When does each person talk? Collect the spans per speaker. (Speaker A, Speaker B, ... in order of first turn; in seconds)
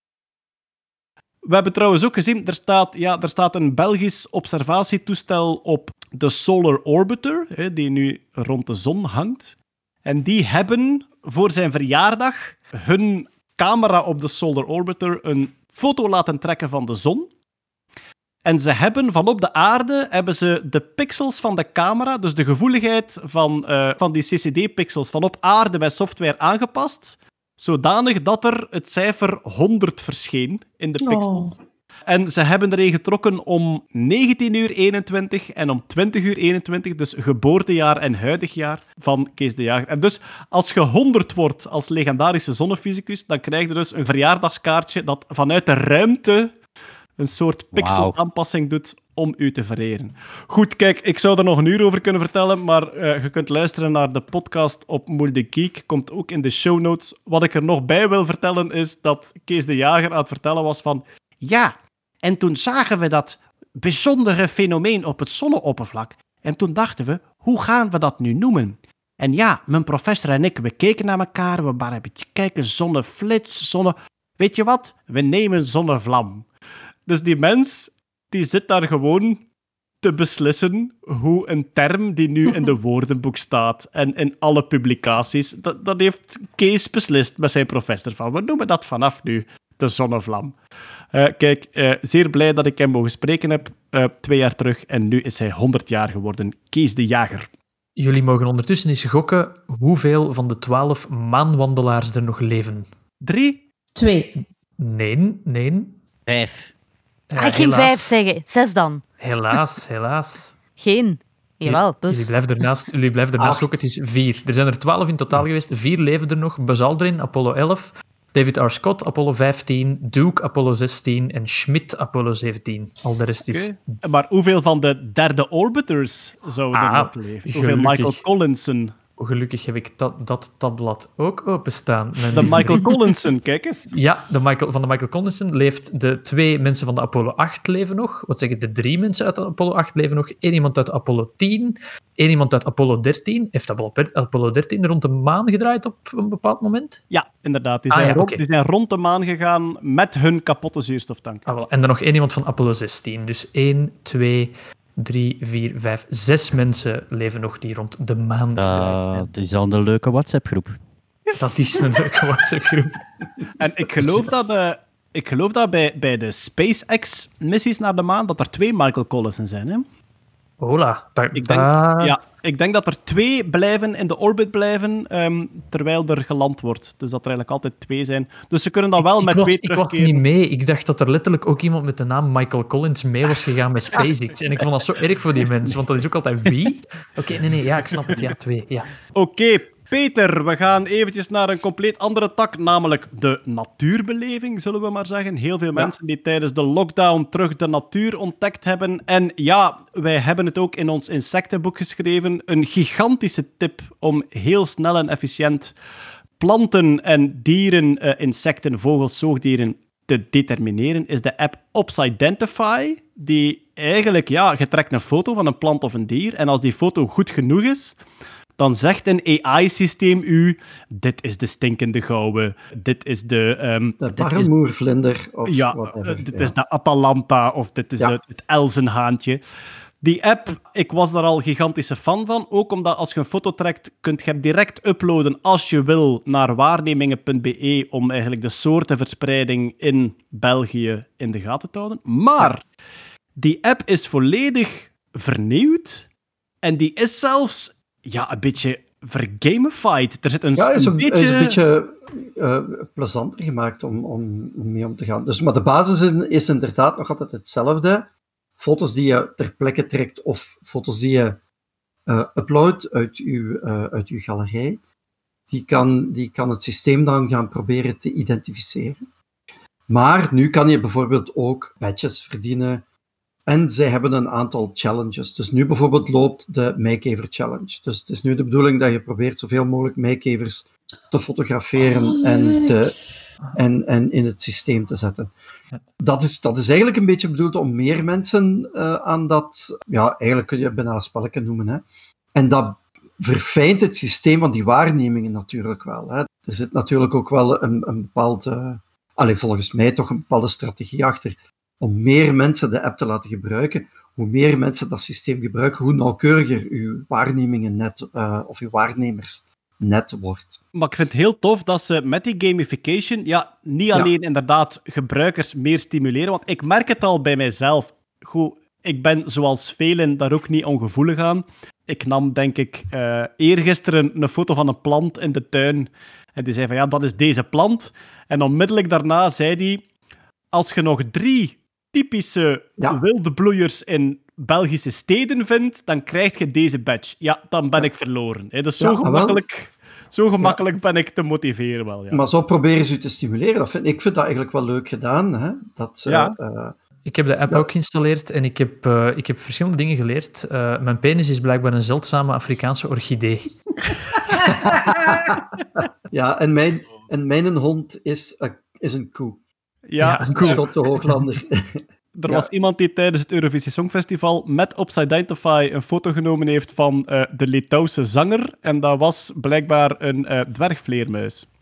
Speaker A: 1.5-17.3, 18.4-31.5, 32.1-46.5, 47.2-76.5, 77.1-79.5, 80.0-90.6, 91.1-97.5, 103.2-103.6, 123.4-129.0, 132.3-133.9, 147.1-151.4, 163.6-169.8, 171.3-180.2, 189.1-205.8, 206.4-218.0, 218.6-224.5, 225.5-229.4, 230.0-242.7, 243.4-246.1, 246.6-251.6, 310.8-329.9, 330.5-342.2, 346.1-346.4, 359.9-360.6, 362.2-371.5
Speaker B: 31.0-31.6, 104.0-104.4, 281.8-282.9
Speaker C: 47.7-48.2, 106.3-106.7, 158.6-160.8
Speaker D: 98.0-102.9, 104.8-106.0, 107.3-108.1, 109.2-110.6, 111.6-124.0, 126.7-128.2, 129.2-133.0, 133.9-147.0, 147.9-148.4, 151.4-159.3, 161.4-163.0, 164.0-164.2, 170.6-172.2, 179.0-188.9, 347.1-353.6, 360.0-361.2
Speaker E: 107.4-109.0, 110.8-112.5
Speaker F: 113.4-113.8, 224.0-226.5, 250.6-261.4, 262.1-264.8, 265.5-269.0, 269.9-272.8, 273.5-282.9, 283.6-285.3, 286.0-291.8, 292.4-310.6, 338.8-339.4, 342.1-346.8, 354.4-355.4, 356.1-359.4, 360.3-362.5